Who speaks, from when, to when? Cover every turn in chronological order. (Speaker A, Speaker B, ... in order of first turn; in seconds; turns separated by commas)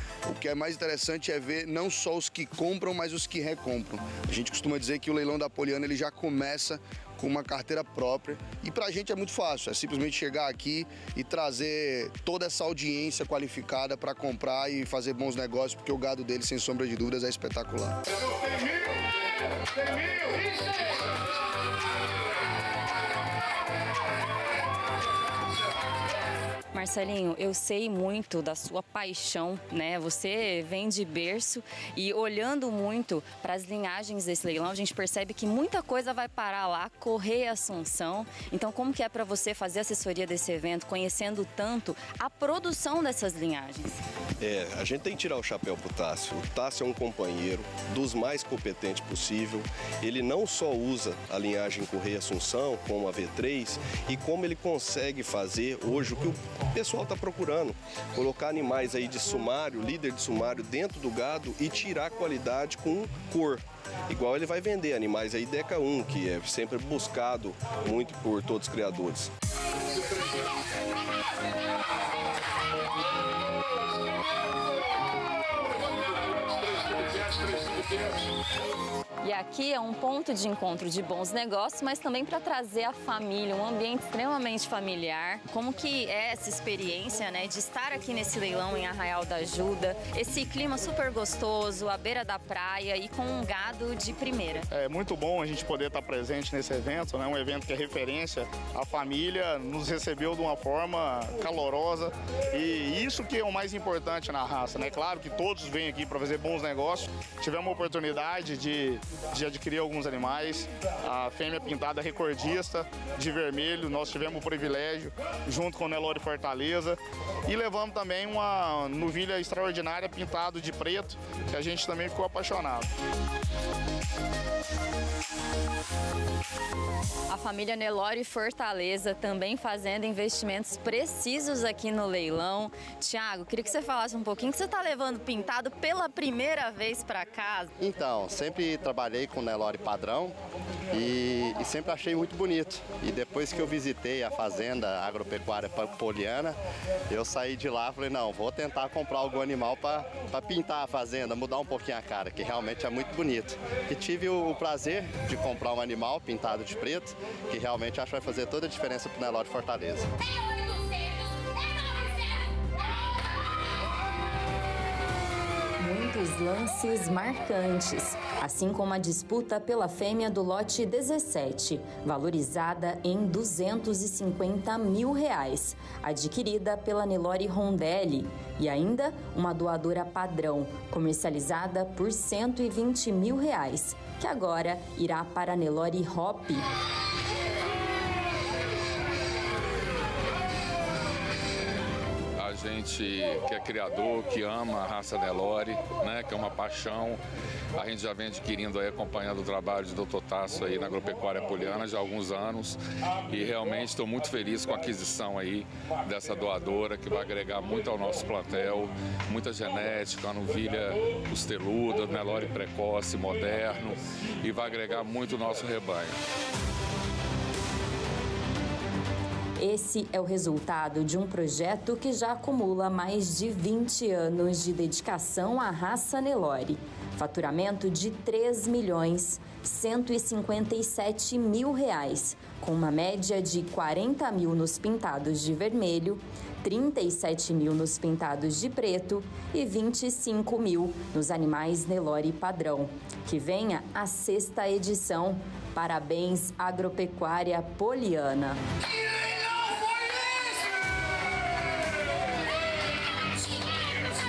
Speaker A: 0.3-17.9, Speaker B: 26.7-44.0, Speaker C: 44.4-69.3, Speaker B: 79.2-94.7, Speaker D: 94.7-122.9, Speaker B: 127.3-137.7, Speaker E: 137.8-140.3, Speaker E: 140.9-146.6, Speaker E: 147.1-160.1, Speaker B: 165.8-186.7, Speaker F: 192.3-197.2, Speaker F: 197.7-216.2, Speaker B: 219.6-248.6